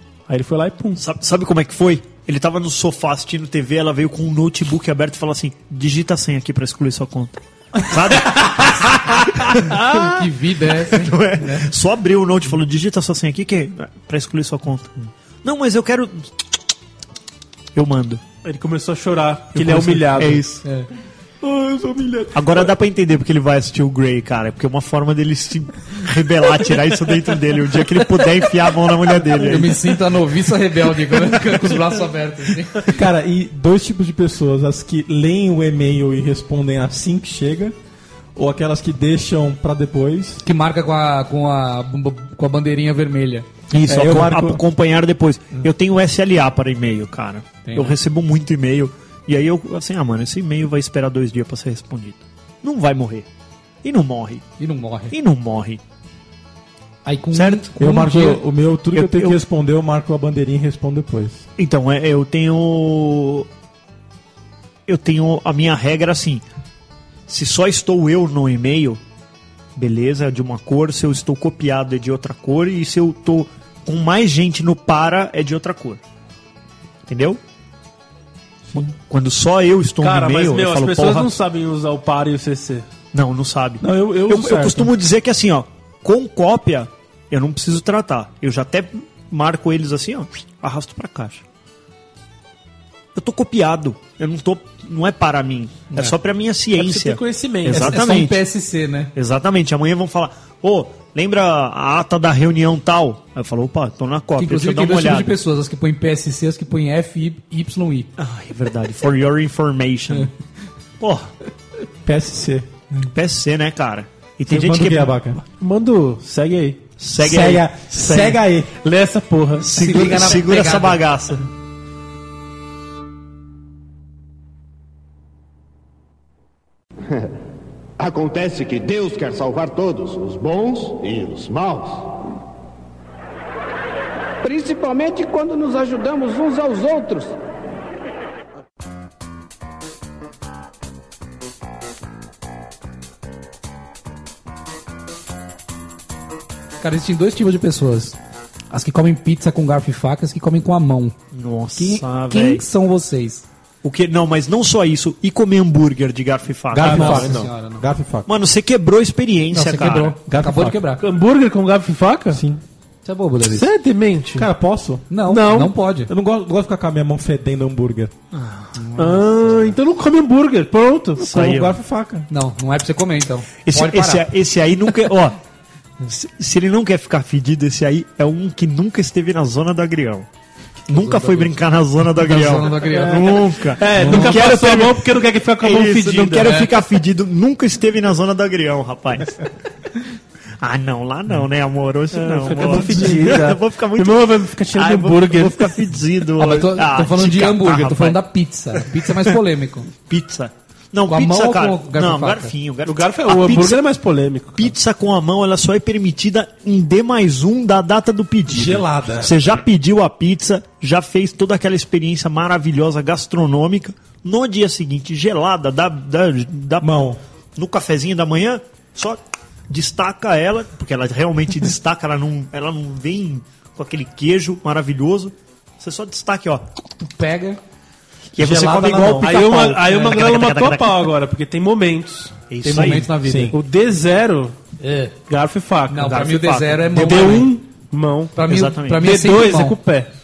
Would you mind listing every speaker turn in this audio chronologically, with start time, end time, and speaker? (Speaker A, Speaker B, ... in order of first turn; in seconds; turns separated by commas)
Speaker A: 0.3-1.0, Speaker B: 1.0-9.8, Speaker C: 9.7-11.7, Speaker B: 10.7-16.5, Speaker B: 17.7-18.2, Speaker A: 18.4-20.4, Speaker B: 19.5-20.6, Speaker D: 21.4-22.7, Speaker B: 22.3-29.8, Speaker C: 29.4-33.0, Speaker D: 32.9-37.7, Speaker D: 38.4-40.4, Speaker C: 40.4-43.5, Speaker B: 43.7-53.3, Speaker D: 43.8-44.6, Speaker C: 47.6-47.9, Speaker B: 53.8-54.4, Speaker C: 54.6-55.1, Speaker B: 55.1-55.8, Speaker C: 57.0-58.3, Speaker B: 57.3-58.4, Speaker D: 57.8-61.5, Speaker B: 58.9-59.4, Speaker B: 61.6-63.5, Speaker B: 64.9-66.4, Speaker B: 67.3-69.0, Speaker B: 69.7-76.0, Speaker B: 77.1-77.4, Speaker B: 78.7-81.3, Speaker A: 80.0-82.9, Speaker B: 83.1-91.4, Speaker D: 83.8-84.9, Speaker B: 93.1-98.4, Speaker A: 96.8-98.0, Speaker C: 97.7-99.1, Speaker B: 99.1-105.4, Speaker C: 104.4-108.1, Speaker B: 108.2-110.3, Speaker B: 111.0-111.3, Speaker D: 112.0-112.9, Speaker B: 113.1-115.3, Speaker D: 114.5-115.4, Speaker A: 115.6-116.8, Speaker B: 117.0-118.4, Speaker D: 117.2-118.7, Speaker A: 118.8-119.7, Speaker B: 119.6-121.4, Speaker C: 119.7-121.0, Speaker E: 128.0-132.1, Speaker F: 134.4-137.3, Speaker C: 146.8-148.2, Speaker C: 148.7-151.1, Speaker B: 151.3-152.6, Speaker C: 151.8-153.4, Speaker B: 153.8-157.3, Speaker D: 156.7-158.3, Speaker A: 156.8-157.5, Speaker C: 156.9-157.8, Speaker B: 158.2-160.2, Speaker C: 159.5-161.0, Speaker D: 160.3-160.8, Speaker A: 161.0-162.4, Speaker D: 162.3-162.6, Speaker C: 163.0-163.7, Speaker A: 163.4-164.5, Speaker D: 164.3-165.1, Speaker C: 165.1-166.1, Speaker A: 165.3-165.7, Speaker D: 166.1-168.1, Speaker B: 168.3-168.8, Speaker C: 168.8-169.7, Speaker A: 169.0-171.4, Speaker B: 171.2-171.7, Speaker D: 171.2-172.3, Speaker C: 172.3-174.3, Speaker B: 173.7-175.4, Speaker B: 176.0-180.3, Speaker B: 180.9-189.4, Speaker C: 180.9-184.5, Speaker A: 183.7-186.6, Speaker B: 190.6-199.4, Speaker A: 192.1-195.8, Speaker D: 192.6-193.3, Speaker C: 196.4-199.9, Speaker B: 200.1-203.8, Speaker C: 201.1-202.5, Speaker A: 202.8-204.7, Speaker B: 204.6-217.0, Speaker D: 208.5-209.3, Speaker D: 216.8-217.2, Speaker B: 217.6-226.7, Speaker C: 227.0-227.6, Speaker B: 228.3-231.1, Speaker D: 228.4-229.5, Speaker A: 229.2-232.4, Speaker B: 232.5-233.1, Speaker C: 232.6-233.6, Speaker D: 233.2-233.6, Speaker A: 233.5-234.6, Speaker C: 234.8-235.1, Speaker A: 235.3-238.4, Speaker C: 235.9-237.5, Speaker B: 236.0-237.5, Speaker C: 238.3-239.8, Speaker B: 238.5-239.0, Speaker A: 239.0-240.1